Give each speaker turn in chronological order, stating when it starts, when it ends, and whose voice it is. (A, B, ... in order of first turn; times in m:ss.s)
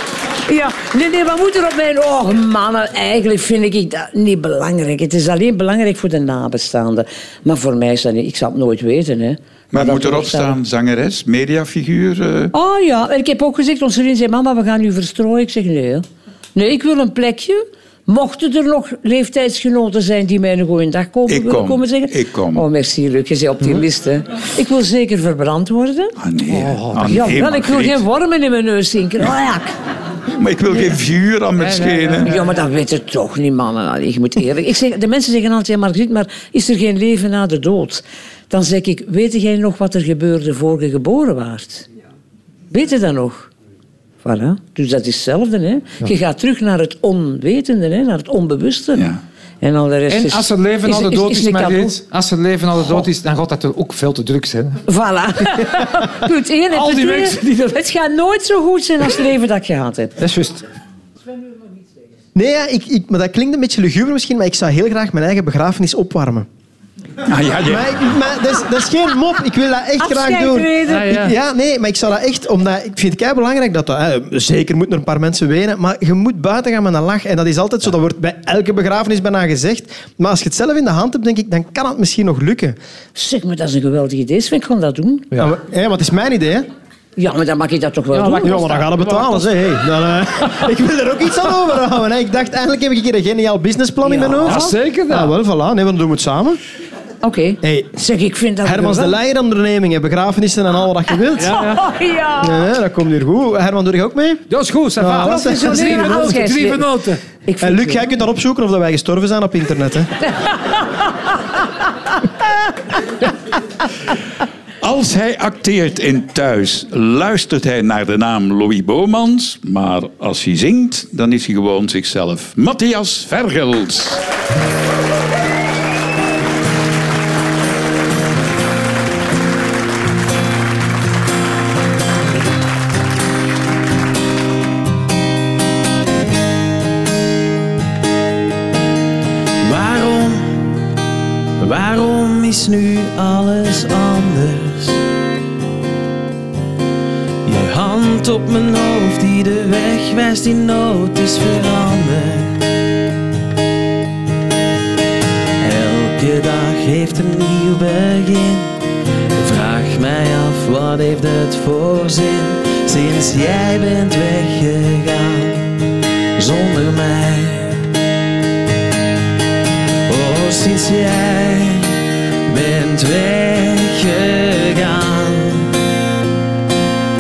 0:00.5-0:10.6 A
0:09.7-0:12.5 B
0:12.5-0:26.1 A
0:21.3-0:22.6 B
0:26.2-0:28.0 B
0:26.5-0:27.2 C
0:27.0-0:29.7 A
0:30.3-0:32.3 B
0:31.6-0:32.5 C
0:32.2-0:41.9 A
0:42.7-0:43.5 A
0:44.2-0:49.1 A
0:49.6-0:52.0 A
0:50.1-0:54.8 C
0:54.9-1:00.2 A
0:56.7-0:57.7 C
1:00.2-1:00.6 C
1:02.4-1:06.5 D
1:07.2-1:08.0 B
1:07.6-1:22.8 D
1:10.0-1:11.2 A
1:10.9-1:11.4 C
1:23.2-1:25.3 A
1:25.4-1:26.7 D
1:27.2-1:28.6 A
1:28.1-1:29.5 C
1:28.4-1:36.6 D
1:34.0-1:34.7 A
1:34.4-1:35.3 C
1:37.2-1:39.2 A
1:37.6-1:37.9 D
1:38.6-1:41.7 D
1:41.4-1:41.8 C
1:41.4-1:42.7 A
1:42.4-1:44.4 D
1:44.5-1:47.2 C
1:45.0-1:46.4 D
1:45.2-1:46.9 A
1:47.5-1:48.1 A
1:47.6-1:50.1 D
1:50.3-1:51.0 A
1:54.8-2:04.2 B
2:19.6-2:20.7 E
2:21.6-2:25.0 E
2:27.4-2:32.7 E
2:35.6-2:38.8 E
2:39.3-2:45.7 E
2:46.4-2:47.8 E
2:50.1-2:55.8 E